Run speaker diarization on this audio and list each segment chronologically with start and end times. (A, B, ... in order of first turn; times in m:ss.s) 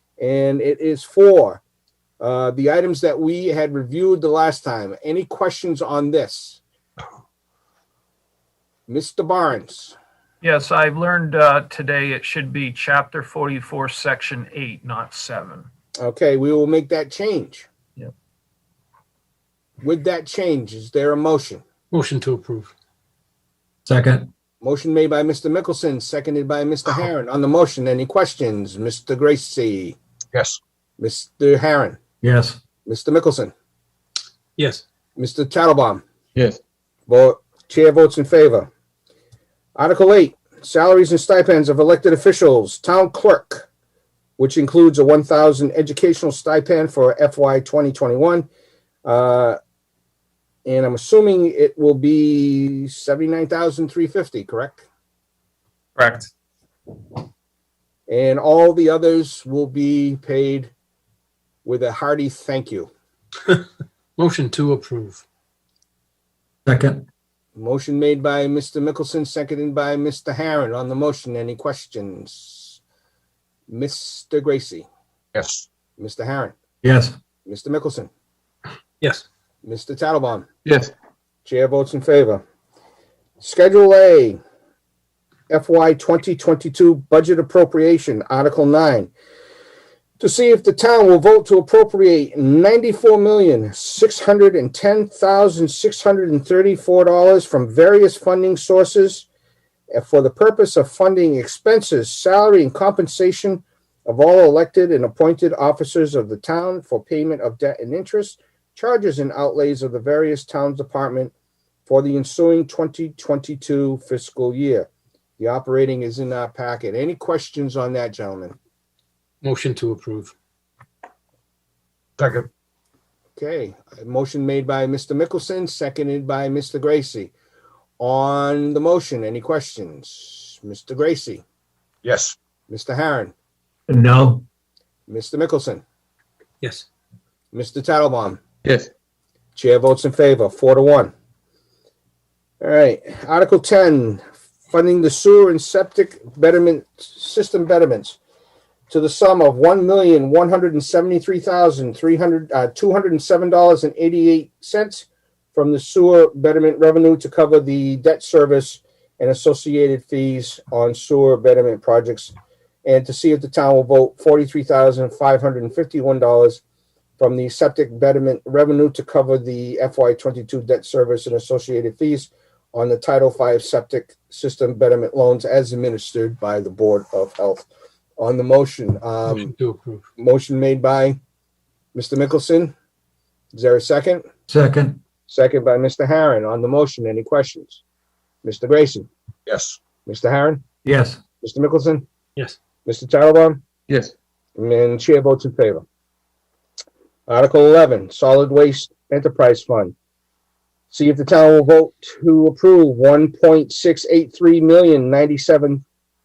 0:00.2-0:01.6 A
0:02.2-0:06.6 A
0:08.9-0:10.0 A
0:10.4-0:15.7 B
0:16.0-0:17.7 A
0:19.8-0:21.6 A
0:21.9-0:22.7 C
0:23.9-0:24.3 D
0:24.6-0:30.0 A
0:30.3-0:30.6 E
0:31.0-0:32.0 A
0:32.2-0:32.6 D
0:32.9-0:33.5 A
0:34.6-0:34.8 C
0:35.2-0:36.0 A
0:37.1-0:38.7 A
0:39.8-0:43.7 A
0:44.4-0:48.5 A
0:49.0-0:49.6 A
0:50.6-0:54.8 A
0:56.0-0:56.3 B
0:58.1-1:00.7 A
1:01.6-1:02.9 A
1:04.2-1:05.2 C
1:06.7-1:07.1 D
1:07.6-1:12.8 A
1:13.7-1:14.9 A
1:15.4-1:15.7 E
1:16.0-1:16.6 A
1:16.8-1:17.2 D
1:17.4-1:18.1 A
1:19.6-1:20.5 A
1:20.6-1:20.9 E
1:21.4-1:22.4 A
1:23.4-1:24.4 A
1:25.5-1:29.1 A
1:30.2-1:39.3 A
1:39.9-1:51.3 A
1:51.9-1:54.9 A
1:55.4-1:58.6 A
1:59.4-2:00.3 C
2:02.2-2:02.5 E
2:03.4-2:07.3 A
2:08.0-2:11.4 A
2:12.0-2:12.4 E
2:12.7-2:13.3 A
2:13.9-2:14.4 D
2:15.1-2:15.8 A
2:16.6-2:16.9 C
2:17.5-2:18.4 A
2:18.6-2:18.9 E
2:19.6-2:21.1 A
2:22.6-2:28.2 A
2:28.9-2:42.3 A
2:42.8-2:46.6 A
2:47.2-2:57.7 A
2:58.2-2:59.5 A
2:59.3-3:00.0 C
3:00.2-3:01.2 A
3:02.0-3:02.7 A
3:03.5-3:04.2 A
3:04.5-3:05.0 D
3:05.3-3:07.8 A
3:08.4-3:09.1 A
3:09.5-3:09.8 E
3:10.0-3:10.6 A
3:10.8-3:11.2 D
3:11.4-3:12.1 A
3:12.8-3:13.6 A
3:14.6-3:15.8 A
3:17.3-3:20.0 A
3:20.9-3:25.8 A